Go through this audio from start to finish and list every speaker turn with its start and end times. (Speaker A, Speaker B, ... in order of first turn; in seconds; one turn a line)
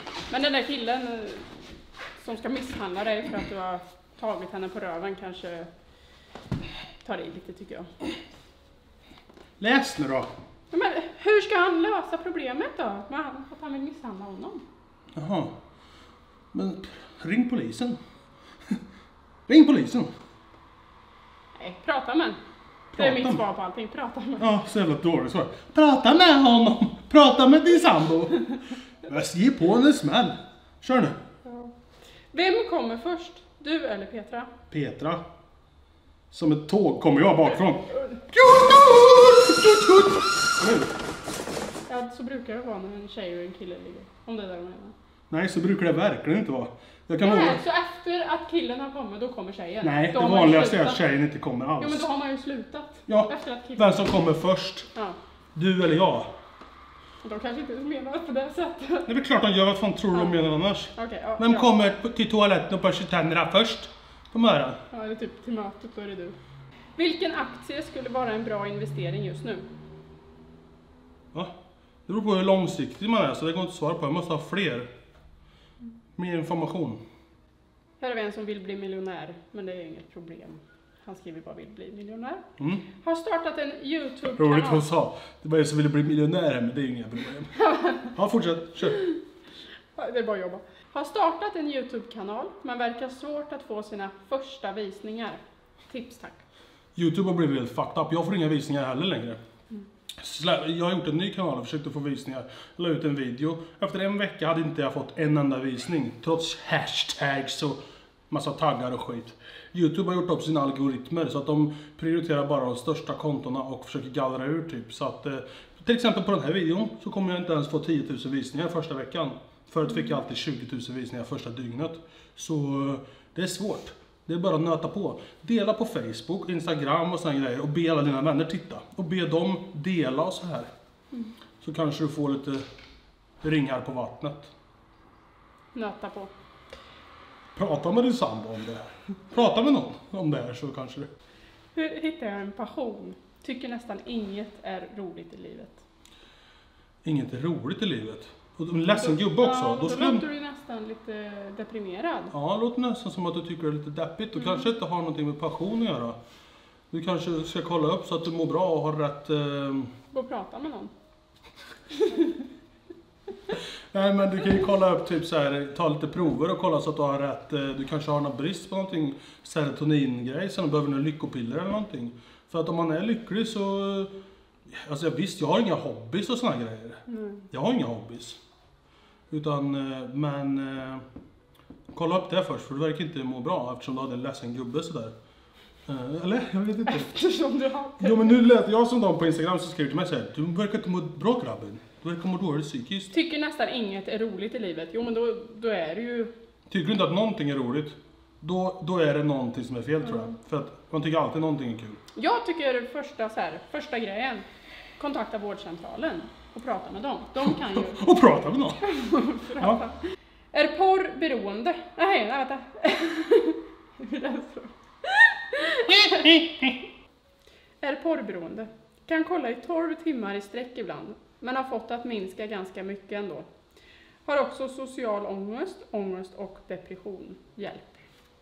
Speaker A: 0.3-5.7
Speaker A: 7.0-7.9
Speaker B: 9.6-10.3
Speaker A: 10.7-14.6
Speaker B: 15.1-15.6
Speaker B: 16.5-18.0
Speaker B: 19.5-20.1
Speaker A: 21.6-22.4
Speaker B: 22.9-23.4
Speaker A: 23.0-24.5
Speaker B: 24.4-28.5
Speaker B: 29.0-31.2
Speaker A: 31.4-31.7
Speaker A: 32.3-34.5
Speaker B: 34.7-35.2
Speaker B: 36.3-40.9
Speaker A: 41.9-44.9
Speaker B: 45.3-47.6
Speaker A: 47.2-51.0
Speaker B: 49.8-52.1
Speaker A: 51.8-54.0
Speaker B: 53.1-54.9
Speaker B: 55.5-56.3
Speaker A: 57.2-59.1
Speaker B: 59.1-64.8
Speaker A: 60.9-61.7
Speaker A: 64.9-66.4
Speaker A: 67.0-69.7
Speaker B: 72.1-74.9
Speaker B: 76.2-77.0
Speaker A: 78.0-82.4
Speaker B: 82.6-82.9
Speaker A: 83.0-84.9
Speaker B: 84.3-89.0
Speaker A: 87.6-88.1
Speaker A: 89.9-96.4
Speaker B: 97.0-99.4
Speaker B: 100.2-130.7
Speaker B: 131.6-132.6
Speaker B: 133.4-134.5
Speaker A: 135.7-136.3
Speaker B: 137.6-141.1
Speaker A: 141.8-145.8
Speaker B: 147.0-150.2
Speaker A: 148.9-152.3
Speaker B: 152.3-156.2
Speaker B: 156.9-159.9
Speaker A: 160.1-160.9
Speaker A: 161.9-162.4
Speaker B: 163.9-174.1
Speaker B: 174.7-178.4
Speaker A: 177.1-177.4
Speaker B: 179.3-181.0
Speaker B: 181.9-185.1
Speaker B: 185.9-187.1
Speaker A: 186.9-188.4
Speaker B: 188.0-193.1
Speaker A: 193.1-196.3
Speaker B: 196.7-202.0
Speaker A: 202.1-204.4
Speaker A: 205.0-208.0
Speaker B: 207.7-208.8
Speaker A: 208.8-210.0
Speaker B: 209.5-209.8
Speaker A: 210.5-216.4
Speaker B: 215.9-216.8
Speaker A: 217.8-223.5
Speaker A: 224.2-228.0